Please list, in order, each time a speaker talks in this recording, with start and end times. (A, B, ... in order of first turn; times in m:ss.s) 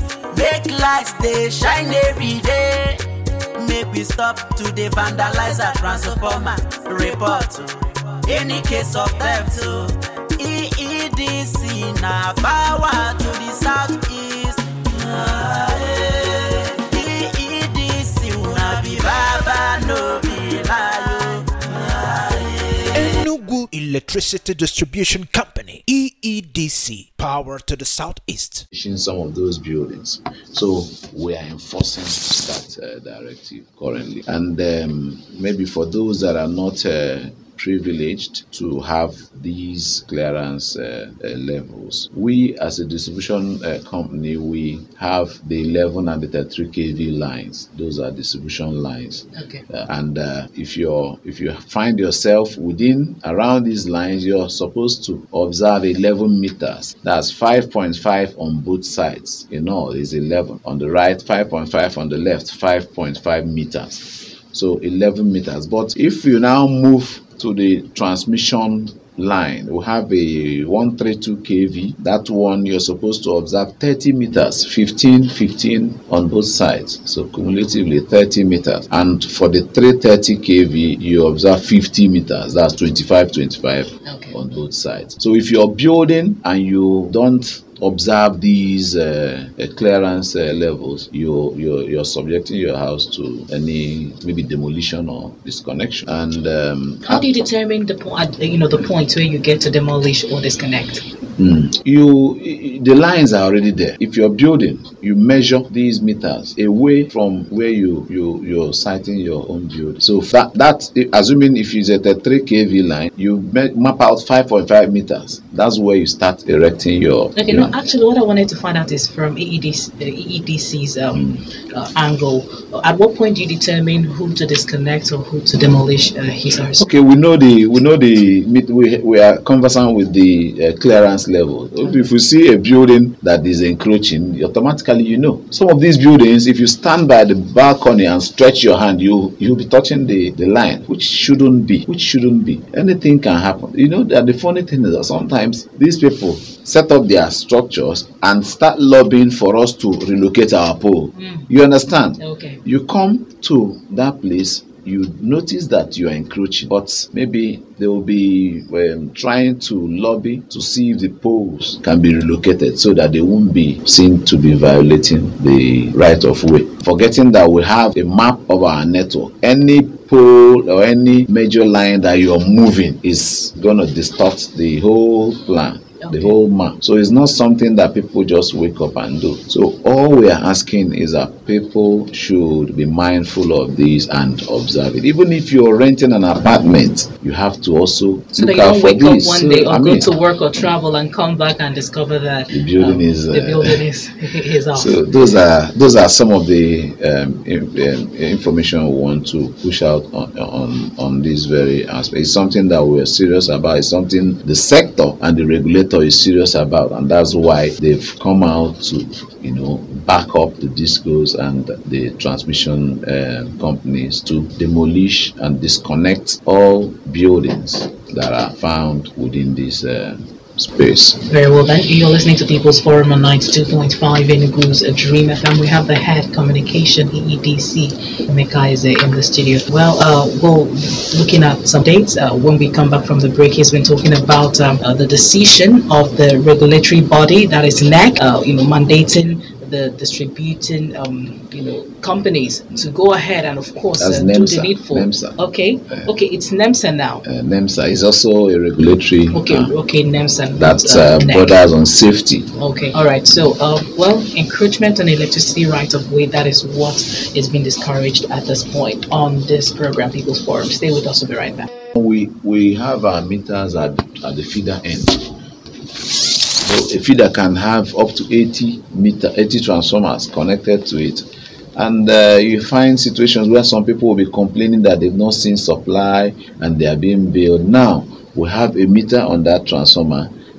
0:00.3-0:23.2 A
0:22.9-0:28.6 B
0:28.7-1:37.3 C
0:49.3-0:49.6 D
1:24.0-1:24.4 D
1:37.0-1:41.0 D
1:41.4-1:57.8 C
1:57.4-2:06.8 D
2:06.7-3:10.1 C
2:31.1-2:31.5 D
2:32.2-2:32.6 D
2:56.0-2:56.3 D
3:08.3-3:15.0 D
3:12.5-3:13.8 C
3:14.7-3:41.2 C
3:41.2-4:07.2 D
4:04.0-4:06.1 C
4:07.2-4:09.7 C
4:09.3-4:11.6 D
4:10.5-4:12.5 C
4:12.6-4:21.7 D
4:22.0-4:25.3 C
4:26.6-4:31.2 C
4:31.7-4:40.3 C